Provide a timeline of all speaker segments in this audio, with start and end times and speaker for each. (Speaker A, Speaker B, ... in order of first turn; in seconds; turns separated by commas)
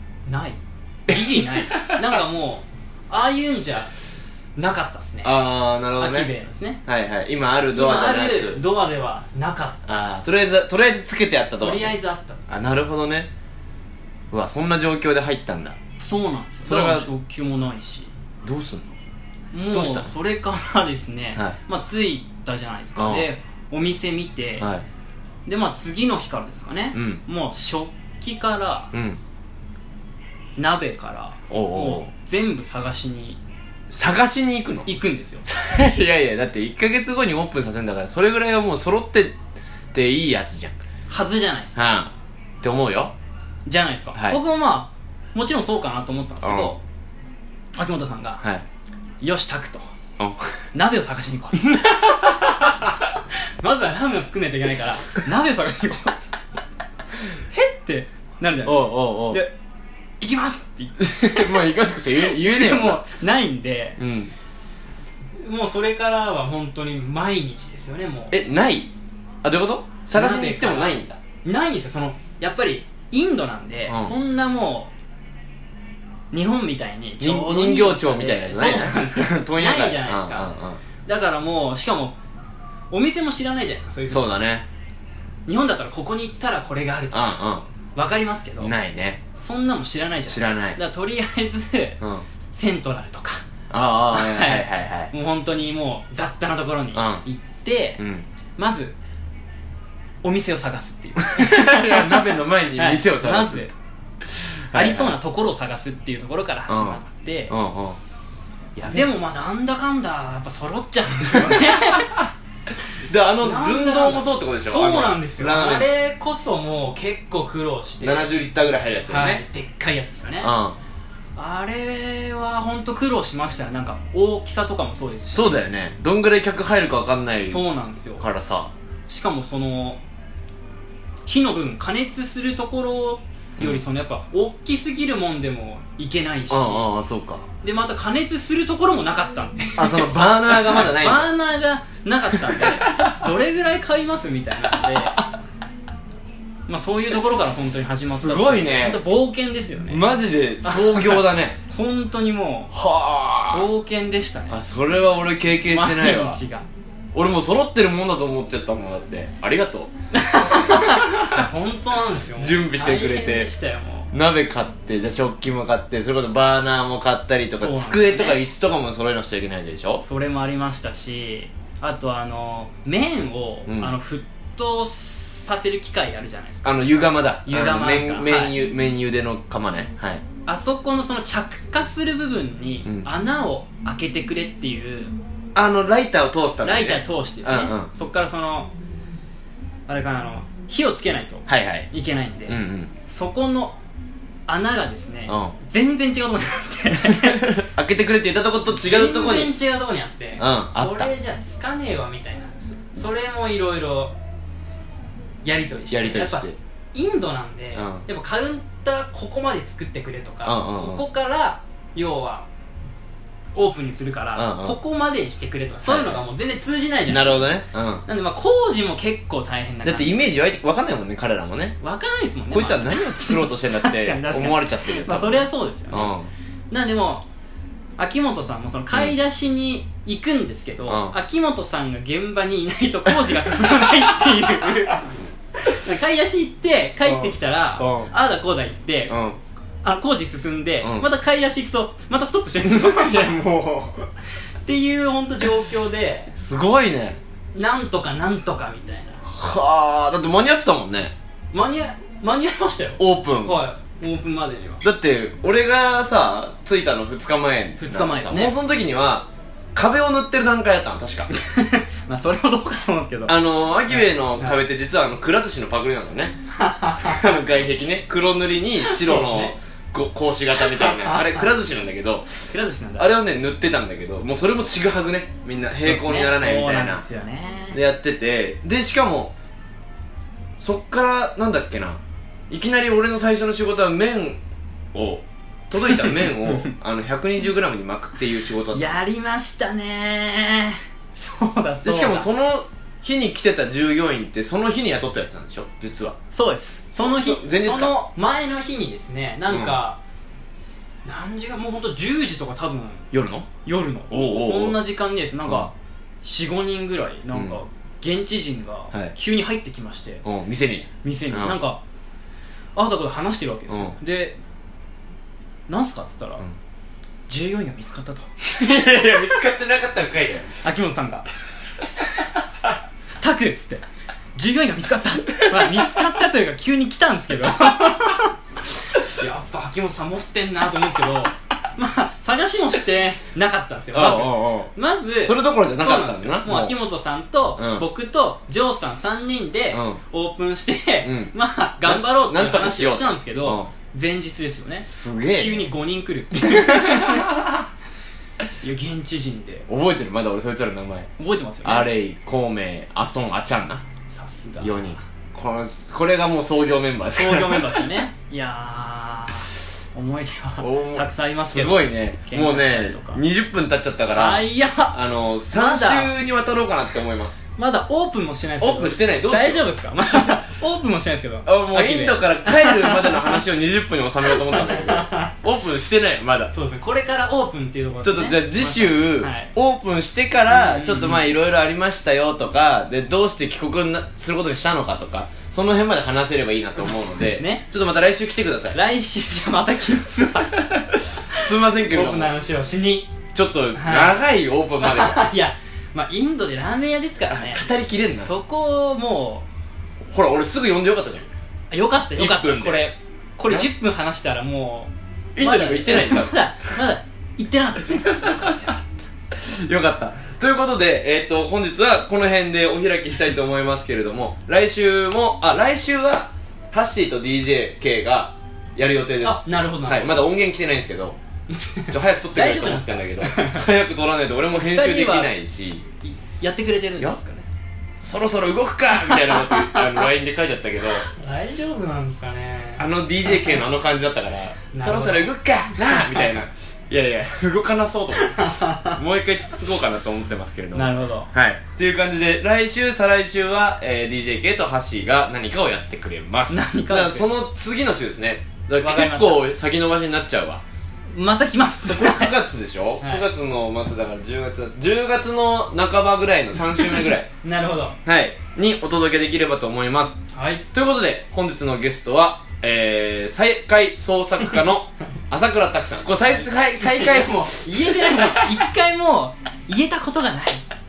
Speaker A: 0.2-3.9, Speaker B: 1.1-2.2, Speaker A: 4.5-5.4, Speaker B: 5.2-6.3, Speaker A: 6.0-6.8, Speaker B: 6.8-8.6, Speaker A: 7.7-9.8, Speaker B: 9.9-12.0, Speaker A: 11.6-12.4, Speaker B: 12.5-13.3, Speaker B: 14.3-15.8, Speaker A: 16.0-18.1, Speaker B: 16.6-17.1, Speaker B: 18.4-18.9, Speaker A: 19.5-24.7, Speaker B: 19.7-20.1, Speaker B: 23.0-23.3, Speaker B: 24.6-24.8, Speaker A: 25.4-28.9, Speaker B: 26.9-27.2, Speaker B: 28.9-29.2, Speaker A: 30.6-33.4, Speaker B: 31.5-32.1, Speaker B: 33.9-34.9, Speaker A: 34.9-35.4, Speaker B: 35.4-39.4, Speaker B: 39.9-40.8, Speaker A: 41.1-41.9, Speaker B: 41.7-43.1, Speaker A: 43.6-46.8, Speaker B: 44.1-44.4, Speaker B: 46.4-46.7, Speaker A: 47.8-48.4, Speaker A: 49.2-49.9, Speaker B: 50.2-50.5, Speaker A: 50.7-56.3, Speaker A: 57.5-59.5, Speaker B: 58.6-59.4, Speaker A: 60.2-64.0, Speaker B: 61.0-63.0, Speaker B: 64.0-64.3, Speaker A: 65.4-68.3, Speaker B: 68.3-68.9, Speaker B: 69.4-71.2, Speaker A: 70.1-74.9, Speaker B: 73.9-74.2, Speaker A: 76.3-80.5, Speaker B: 77.2-80.8, Speaker A: 81.0-82.1, Speaker A: 82.9-84.3, Speaker B: 84.1-84.6, Speaker A: 85.5-87.4, Speaker B: 87.1-87.7, Speaker A: 88.0-88.7, Speaker B: 88.6-89.2, Speaker A: 89.3-92.0, Speaker B: 90.3-90.8, Speaker A: 92.5-93.4, Speaker B: 93.7-95.1, Speaker A: 94.1-98.0, Speaker B: 96.9-97.2, Speaker B: 98.0-98.2, Speaker A: 98.6-98.9, Speaker A: 100.2-103.7, Speaker B: 101.2-103.7, Speaker B: 104.7-105.2, Speaker A: 104.7-107.5, Speaker B: 106.7-108.0, Speaker B: 108.8-109.0, Speaker A: 108.9-112.3, Speaker B: 111.4-112.3, Speaker B: 113.0-115.9, Speaker A: 113.4-118.3, Speaker B: 118.0-119.4, Speaker A: 119.1-120.5, Speaker B: 120.4-120.8, Speaker A: 121.4-125.6, Speaker B: 125.3-127.6, Speaker A: 127.5-128.2, Speaker B: 128.2-128.7, Speaker A: 129.1-130.0, Speaker A: 131.2-136.9, Speaker B: 136.5-137.4, Speaker A: 137.6-145.2, Speaker B: 139.8-141.3, Speaker B: 142.3-143.3, Speaker B: 144.7-145.2, Speaker A: 146.7-150.0, Speaker B: 148.1-149.0, Speaker B: 149.9-151.6, Speaker A: 150.6-152.7, Speaker B: 152.7-153.7, Speaker A: 153.5-154.6, Speaker B: 154.5-156.4, Speaker A: 155.7-156.7, Speaker B: 157.1-161.4, Speaker A: 160.1-164.1, Speaker B: 162.3-163.5, Speaker B: 164.1-170.0, Speaker A: 167.6-168.4, Speaker A: 170.0-176.7, Speaker B: 173.7-173.9, Speaker B: 176.6-180.2, Speaker A: 177.4-178.5, Speaker A: 180.4-185.2, Speaker B: 185.5-187.9, Speaker A: 186.6-188.7, Speaker A: 189.9-193.8, Speaker B: 191.5-191.9, Speaker B: 192.5-192.9, Speaker A: 194.5-197.6, Speaker B: 195.3-195.6, Speaker B: 197.0-199.5, Speaker A: 198.7-204.1, Speaker B: 200.4-201.1, Speaker A: 205.4-212.5, Speaker B: 205.9-206.6, Speaker B: 207.7-208.0, Speaker B: 210.4-211.0, Speaker A: 213.5-220.2, Speaker B: 214.3-214.8, Speaker B: 215.8-216.3, Speaker B: 217.1-218.0, Speaker B: 219.8-221.8, Speaker A: 221.8-226.1, Speaker B: 222.5-226.3, Speaker A: 226.7-227.2, Speaker A: 228.0-239.2, Speaker B: 230.9-231.2, Speaker B: 237.0-238.1, Speaker B: 239.1-239.4, Speaker A: 239.8-243.5, Speaker B: 240.8-241.1, Speaker B: 242.7-244.1, Speaker A: 244.6-246.3, Speaker B: 246.4-247.2, Speaker A: 247.5-249.2, Speaker B: 249.2-251.1, Speaker A: 251.5-254.8, Speaker B: 253.0-253.6, Speaker B: 254.8-261.3, Speaker A: 257.8-258.5, Speaker A: 261.3-264.6, Speaker B: 263.3-266.4, Speaker A: 266.6-267.2, Speaker B: 267.0-272.3, Speaker A: 268.9-269.5, Speaker A: 270.6-271.4, Speaker A: 272.5-273.1, Speaker B: 273.0-277.0, Speaker A: 275.8-277.8, Speaker B: 277.7-279.3, Speaker B: 280.6-284.4, Speaker B: 284.9-289.0, Speaker A: 285.8-286.7, Speaker A: 288.7-292.3, Speaker B: 291.8-296.1, Speaker A: 296.3-300.0, Speaker B: 296.9-297.9, Speaker B: 299.5-299.8, Speaker A: 301.1-303.1, Speaker B: 303.1-303.5, Speaker A: 303.6-310.2, Speaker B: 304.1-304.8, Speaker B: 307.3-307.6, Speaker B: 310.2-311.6, Speaker A: 311.0-311.8, Speaker A: 312.8-314.4, Speaker B: 313.7-314.0, Speaker A: 315.7-316.4, Speaker A: 317.3-318.3, Speaker B: 318.4-320.6, Speaker A: 320.6-321.3, Speaker A: 323.2-323.8, Speaker A: 324.4-347.4, Speaker B: 325.4-326.0, Speaker B: 333.9-334.7, Speaker B: 335.2-336.8, Speaker B: 337.6-337.9, Speaker B: 339.7-340.0, Speaker B: 341.0-343.7, Speaker B: 344.8-345.7, Speaker B: 346.3-347.6, Speaker A: 348.6-349.6, Speaker B: 349.7-351.1, Speaker A: 351.2-351.9, Speaker B: 351.6-353.8, Speaker A: 354.1-355.0, Speaker B: 354.6-358.0, Speaker A: 357.1-363.2, Speaker B: 360.6-367.5, Speaker A: 364.1-365.0, Speaker A: 365.5-366.1, Speaker A: 367.6-373.4, Speaker B: 368.6-370.2, Speaker B: 371.4-376.5, Speaker A: 374.3-375.3, Speaker A: 376.5-379.5, Speaker B: 378.0-388.8, Speaker A: 380.5-381.2, Speaker A: 386.8-387.6, Speaker A: 388.7-393.1, Speaker B: 390.7-392.3, Speaker B: 393.3-395.2, Speaker A: 393.8-394.2, Speaker A: 394.8-397.6, Speaker B: 397.3-398.3, Speaker A: 398.1-399.5, Speaker B: 400.1-401.3, Speaker A: 401.7-409.1, Speaker B: 402.1-402.9, Speaker B: 405.4-406.8, Speaker B: 408.1-408.7, Speaker B: 409.3-421.2, Speaker A: 419.2-420.2, Speaker A: 421.5-423.7, Speaker B: 421.9-425.8, Speaker A: 424.5-425.3, Speaker A: 426.0-427.5, Speaker B: 428.0-431.0, Speaker A: 428.9-430.1, Speaker A: 430.9-433.6, Speaker B: 432.8-450.6, Speaker A: 434.7-436.3, Speaker A: 438.1-439.0, Speaker A: 440.7-441.3, Speaker A: 446.5-447.3, Speaker A: 448.8-449.5, Speaker A: 451.1-452.4, Speaker B: 451.9-457.3, Speaker A: 453.0-453.3, Speaker A: 457.4-458.0, Speaker B: 458.0-460.2, Speaker A: 460.3-460.6, Speaker B: 460.7-468.6, Speaker A: 466.8-470.6